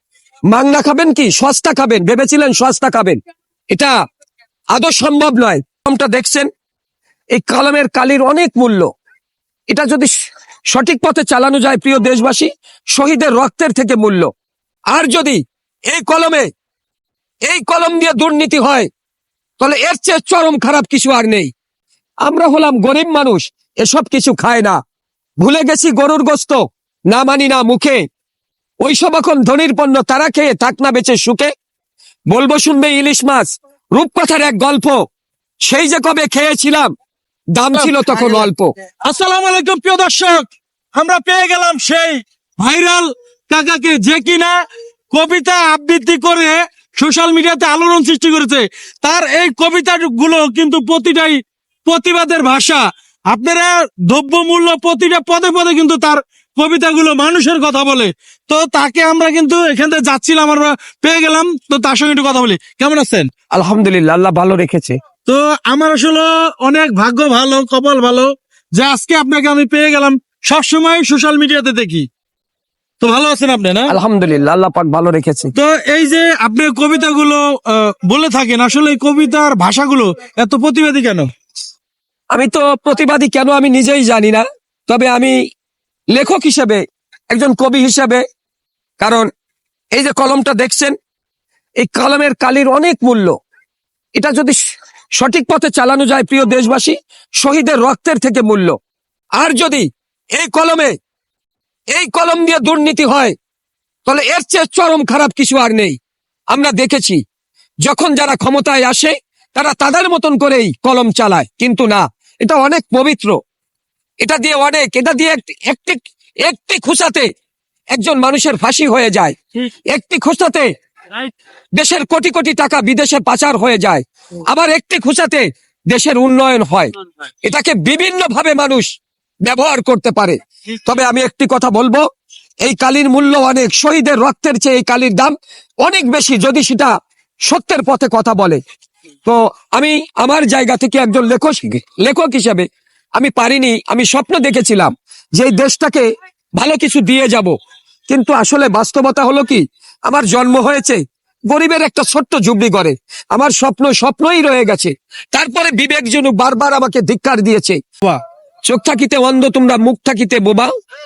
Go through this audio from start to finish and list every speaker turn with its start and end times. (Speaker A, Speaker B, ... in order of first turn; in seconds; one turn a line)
Speaker A: 0.5-3.2
Speaker A: 4.7-6.5
Speaker A: 7.3-8.9
Speaker A: 9.7-10.1
Speaker A: 10.7-14.3
Speaker A: 14.9-16.5
Speaker A: 17.5-18.9
Speaker A: 19.6-21.5
Speaker A: 22.2-24.8
Speaker A: 25.4-28.0
Speaker A: 28.8-31.5
Speaker A: 32.3-35.0
Speaker A: 35.6-36.9
Speaker A: 37.6-38.7
Speaker B: 37.7-38.5
Speaker B: 39.0-44.6
Speaker B: 45.1-63.3
Speaker A: 63.5-65.0
Speaker B: 65.3-72.1
Speaker B: 73.0-73.9
Speaker A: 73.9-75.5
Speaker B: 75.5-81.3
Speaker A: 82.3-85.3
Speaker A: 86.1-86.8
Speaker A: 87.3-88.2
Speaker A: 89.0-89.3
Speaker A: 90.0-91.0
Speaker A: 91.8-93.3
Speaker A: 94.2-94.6
Speaker A: 95.2-98.8
Speaker A: 99.4-100.9
Speaker A: 101.9-103.3
Speaker A: 104.1-106.0
Speaker A: 106.5-107.2
Speaker A: 107.8-113.4
Speaker A: 114.2-117.3
Speaker A: 117.9-119.4
Speaker A: 119.9-120.7
Speaker A: 121.8-126.9
Speaker A: 127.4-128.9
Speaker A: 129.5-132.1
Speaker A: 132.6-136.9
Speaker A: 137.5-138.6
Speaker A: 139.2-146.1
Speaker A: 146.6-147.6
Speaker A: 148.1-157.8
Speaker A: 158.7-160.7